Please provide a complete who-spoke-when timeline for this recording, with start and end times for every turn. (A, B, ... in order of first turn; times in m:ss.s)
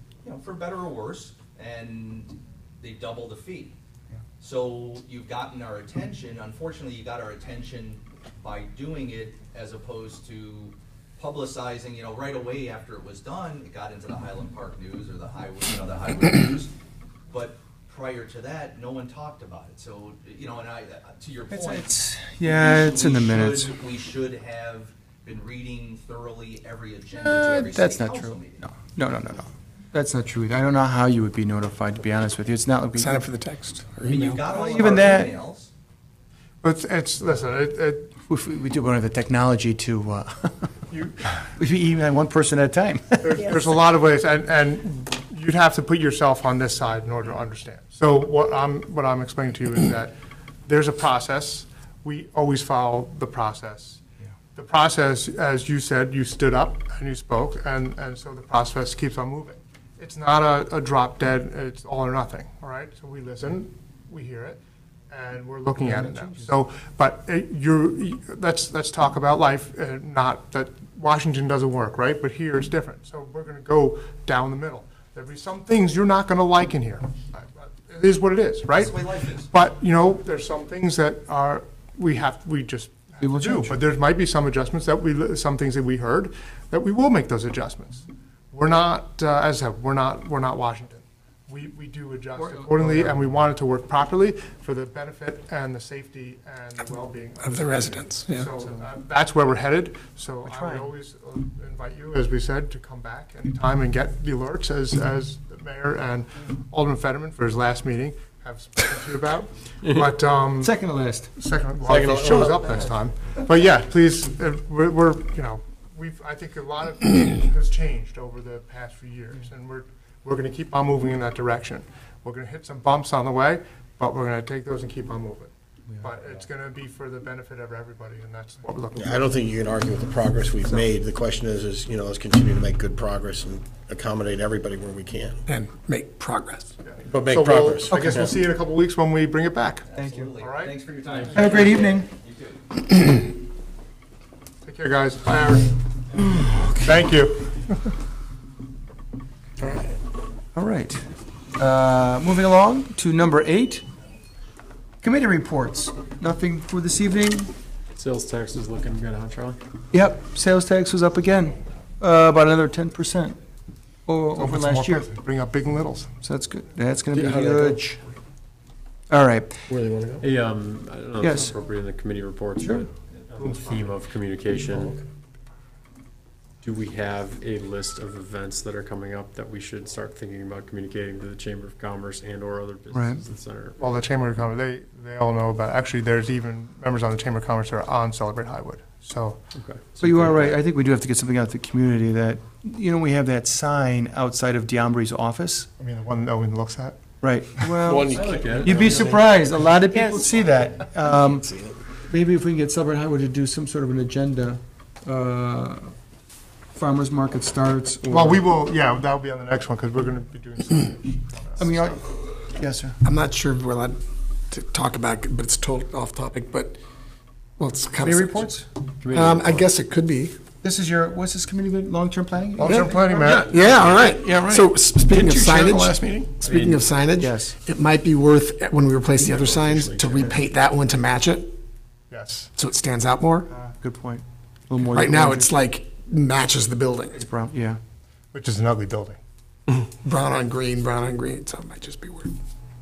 0:00.2-0:03.7 A
0:04.4-0:16.7 A
0:17.3-0:28.7 A
0:21.5-0:23.7 B
0:27.2-0:33.2 B
0:33.0-0:34.4 C
0:34.0-0:35.7 A
0:34.4-0:35.3 B
0:36.6-0:38.1 D
0:38.3-0:40.7 B
0:40.9-0:41.3 D
0:41.4-0:43.6 B
0:43.2-0:50.1 D
0:50.7-0:54.0 D
0:54.6-1:50.8 D
1:05.8-1:06.6 B
1:18.7-1:19.5 A
1:23.2-1:23.8 B
1:32.3-1:33.3 B
1:37.4-1:38.5 C
1:40.4-1:40.9 B
1:50.6-1:51.3 B
1:51.4-2:09.2 D
1:51.8-1:52.8 E
2:08.9-2:15.4 E
2:15.5-2:16.8 C
2:16.8-2:20.8 D
2:17.1-2:18.4 E
2:17.9-2:18.2 B
2:19.9-2:22.6 A
2:19.9-2:20.3 B
2:21.1-2:21.7 F
2:21.3-2:22.1 B
2:24.6-2:25.7 D
2:26.2-2:27.0 B
2:26.8-2:27.9 D
2:30.6-2:31.0 B
2:31.6-2:33.8 B
2:35.0-2:37.5 B
2:37.9-2:39.6 F
2:39.9-2:43.4 B
2:44.1-2:45.1 B
2:44.4-2:46.1 D
2:46.2-2:48.0 B
2:47.1-2:47.8 E
2:49.1-2:49.6 B
2:49.7-2:50.2 E
2:50.2-2:54.9 F
2:51.2-2:51.5 B
2:52.6-2:52.9 B
2:56.6-3:03.8 F
3:02.9-3:03.2 B
3:03.8-3:09.4 D
3:09.6-3:10.6 F
3:10.0-3:15.7 B
3:15.8-3:17.0 D
3:17.2-3:21.5 B
3:17.8-3:19.2 E
3:18.1-3:19.3 F
3:21.1-3:21.8 E
3:22.1-3:25.9 B
3:26.8-3:28.4 B
3:28.1-3:32.0 D
3:31.6-3:33.0 B
3:33.0-3:34.0 C
3:34.5-3:36.8 C
3:37.6-3:38.5 C
3:38.0-3:38.7 B
3:39.0-3:39.7 F
3:39.1-3:40.4 C
3:40.6-3:42.9 B
3:42.6-3:43.5 D
3:42.6-3:46.3 E
3:42.7-3:51.5 C
3:46.4-3:46.9 F
3:47.2-3:47.6 B
3:49.2-3:50.4 E
3:52.1-3:52.5 D
3:52.5-3:53.5 C
3:53.5-3:55.5 B
3:54.9-3:57.2 C
3:57.2-3:57.8 B
3:58.3-3:59.2 D
3:59.7-4:02.3 C